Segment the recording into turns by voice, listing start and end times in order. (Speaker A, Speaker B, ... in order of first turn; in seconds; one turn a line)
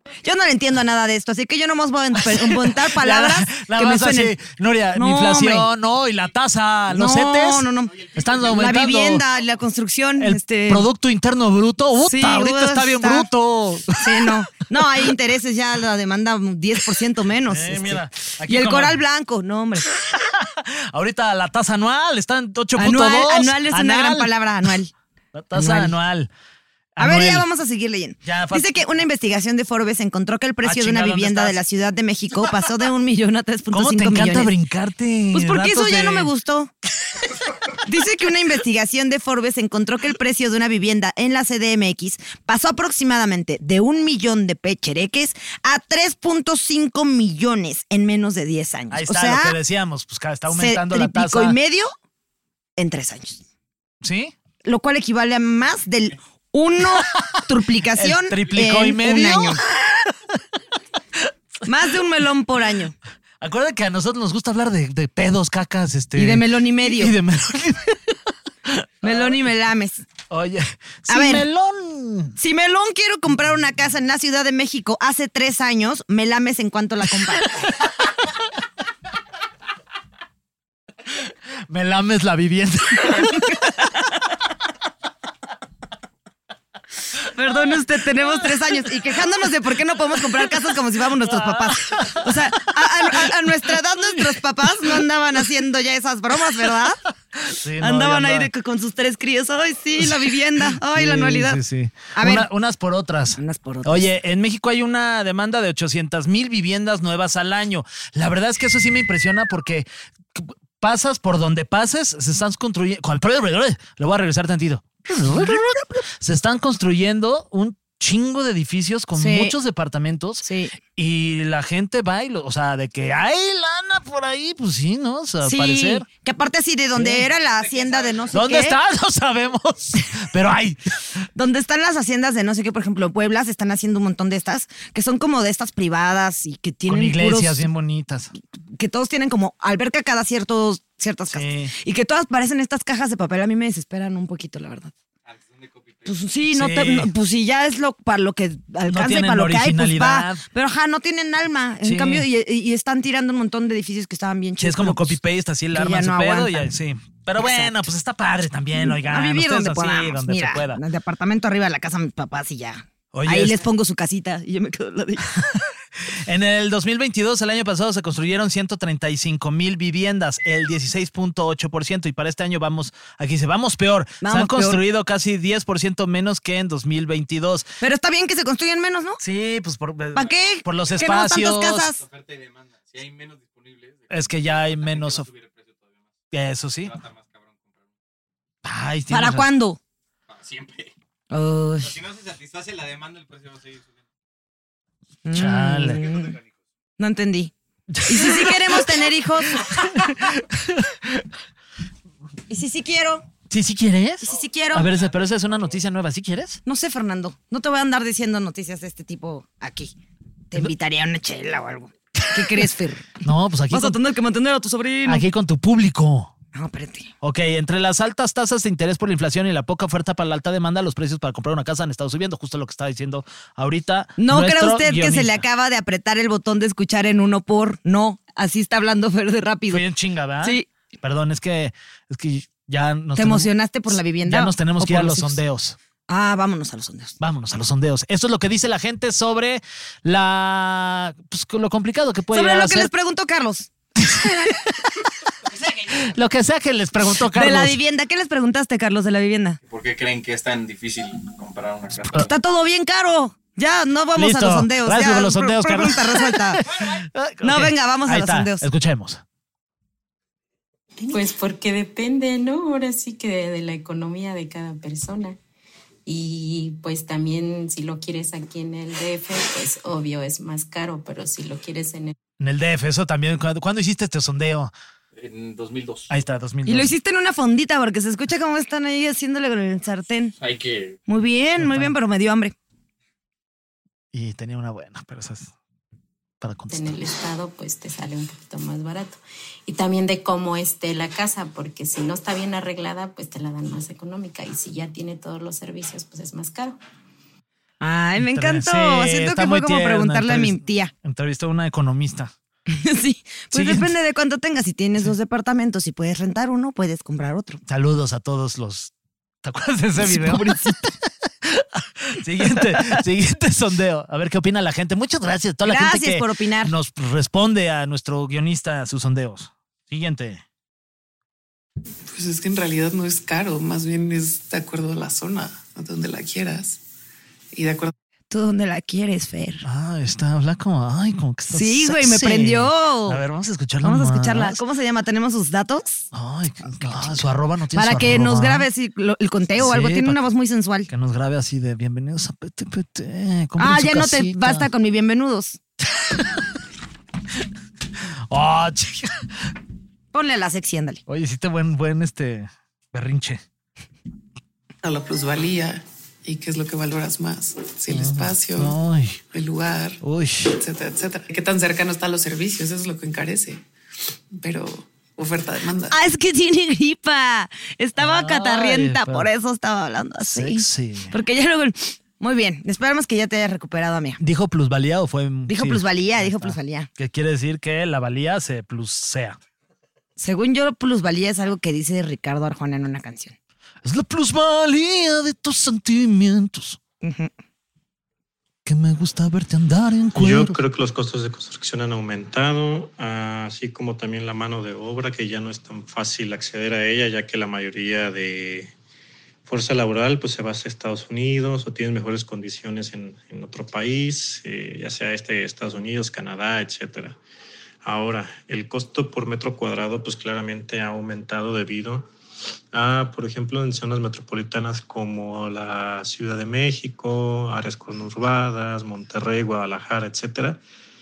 Speaker A: 0.2-4.4
Speaker B: 2.1-9.2
Speaker A: 5.0-5.7
Speaker A: 6.9-10.9
Speaker C: 7.8-9.7
Speaker B: 10.2-15.1
Speaker A: 12.0-13.3
Speaker A: 14.0-19.9
Speaker B: 16.9-19.0
Speaker B: 19.8-24.3
Speaker A: 22.8-24.9
Speaker B: 25.3-26.3
Speaker A: 25.5-25.9
Speaker B: 26.9-27.5
Speaker A: 27.0-34.5
Speaker B: 28.2-28.8
Speaker B: 30.6-31.6
Speaker B: 33.7-36.3
Speaker A: 35.3-36.7
Speaker A: 37.8-49.5
Speaker B: 48.9-51.5
Speaker A: 50.5-51.9
Speaker A: 52.8-53.4
Speaker B: 54.0-54.3
Speaker A: 54.6-59.6
Speaker B: 56.9-57.2
Speaker B: 57.9-60.4
Speaker A: 61.6-62.9
Speaker B: 63.4-69.1
Speaker A: 66.2-67.1
Speaker A: 69.0-70.0
Speaker B: 70.3-72.4
Speaker A: 71.1-71.4
Speaker A: 72.4-77.5
Speaker B: 81.7-83.8
Speaker A: 83.2-83.9
Speaker A: 87.2-97.0
Speaker B: 91.2-95.0
Speaker B: 97.3-98.5
Speaker A: 97.8-101.6
Speaker B: 100.0-120.4
Speaker A: 102.1-102.5
Speaker A: 103.3-104.1
Speaker A: 119.2-119.5
Speaker A: 120.4-120.8
Speaker B: 121.0-126.1
Speaker A: 125.4-128.8
Speaker B: 126.9-127.3
Speaker C: 127.4-128.3
Speaker B: 128.3-130.8
Speaker A: 131.3-137.7
Speaker B: 136.9-138.3
Speaker A: 138.7-144.9
Speaker B: 141.3-141.7
Speaker C: 145.2-146.4
Speaker A: 146.1-155.2
Speaker B: 146.5-147.1
Speaker B: 148.9-150.4
Speaker B: 151.8-152.2
Speaker B: 154.6-160.8
Speaker A: 155.7-156.7
Speaker A: 157.4-157.9
Speaker A: 158.8-165.4
Speaker B: 163.1-163.6
Speaker B: 166.1-177.7
Speaker A: 174.2-174.8
Speaker A: 177.8-179.2
Speaker B: 179.2-181.9
Speaker A: 180.1-182.0
Speaker C: 180.2-181.3
Speaker C: 181.9-186.1
Speaker B: 184.1-185.2
Speaker B: 186.3-186.9
Speaker C: 186.8-187.9
Speaker B: 188.6-189.5
Speaker A: 189.1-189.8
Speaker C: 190.3-190.9
Speaker A: 191.3-191.9
Speaker C: 191.8-194.0
Speaker A: 195.2-196.3
Speaker B: 195.3-196.0
Speaker C: 196.0-196.4
Speaker A: 197.0-197.5
Speaker B: 197.9-199.0
Speaker A: 198.0-199.6
Speaker B: 199.6-201.3
Speaker A: 202.5-203.2
Speaker B: 203.5-206.6
Speaker A: 204.3-204.9
Speaker C: 204.9-205.7
Speaker A: 206.6-209.9
Speaker A: 210.5-215.2
Speaker B: 212.2-212.7
Speaker B: 213.2-214.0
Speaker B: 215.1-216.3
Speaker A: 216.5-217.1
Speaker B: 217.2-225.4
Speaker A: 224.2-229.8
Speaker B: 229.7-233.5
Speaker A: 230.4-230.7
Speaker A: 233.2-235.4
Speaker B: 234.2-235.8
Speaker A: 236.1-237.2
Speaker B: 237.2-242.9
Speaker A: 242.3-243.7
Speaker B: 244.0-244.8
Speaker C: 245.5-246.0
Speaker B: 245.9-247.8
Speaker A: 247.3-249.6
Speaker C: 249.7-252.3
Speaker A: 252.2-256.6
Speaker B: 254.1-259.2
Speaker A: 257.4-258.6
Speaker D: 261.1-265.4
Speaker D: 266.1-272.1
Speaker B: 272.4-274.7
Speaker C: 275.1-276.1
Speaker B: 276.1-276.9
Speaker A: 276.6-280.3
Speaker C: 280.4-281.0
Speaker A: 281.1-282.5
Speaker B: 281.6-281.9
Speaker B: 284.1-285.5
Speaker B: 286.4-287.1
Speaker D: 286.7-296.8
Speaker A: 297.8-300.9
Speaker B: 298.2-302.3
Speaker A: 302.7-307.6
Speaker B: 303.5-303.9
Speaker B: 307.7-308.9
Speaker B: 309.4-320.4
Speaker A: 310.0-310.8
Speaker A: 312.5-313.0
Speaker A: 315.6-316.7
Speaker E: 322.1-326.8
Speaker E: 327.5-327.9
Speaker A: 328.3-329.6
Speaker B: 329.6-334.6
Speaker A: 331.5-333.2
Speaker A: 333.8-336.0
Speaker B: 336.1-338.7
Speaker A: 336.7-337.1
Speaker A: 337.7-340.9
Speaker B: 339.6-340.2
Speaker B: 340.9-344.7
Speaker A: 343.6-345.6
Speaker B: 345.9-346.6
Speaker B: 348.3-349.5
Speaker A: 350.1-351.0
Speaker B: 351.1-353.4
Speaker E: 354.8-358.8
Speaker B: 357.9-359.2
Speaker E: 359.3-363.6
Speaker B: 360.0-360.6
Speaker E: 364.3-366.0
Speaker A: 365.9-374.2
Speaker B: 368.0-369.3
Speaker B: 370.2-371.1
Speaker B: 374.2-379.4
Speaker A: 375.5-376.9
Speaker A: 380.2-383.3
Speaker B: 383.8-386.8
Speaker A: 387.0-387.3
Speaker B: 388.6-390.6
Speaker F: 390.1-398.7
Speaker F: 399.4-407.2
Speaker F: 407.8-412.1
Speaker F: 412.7-420.6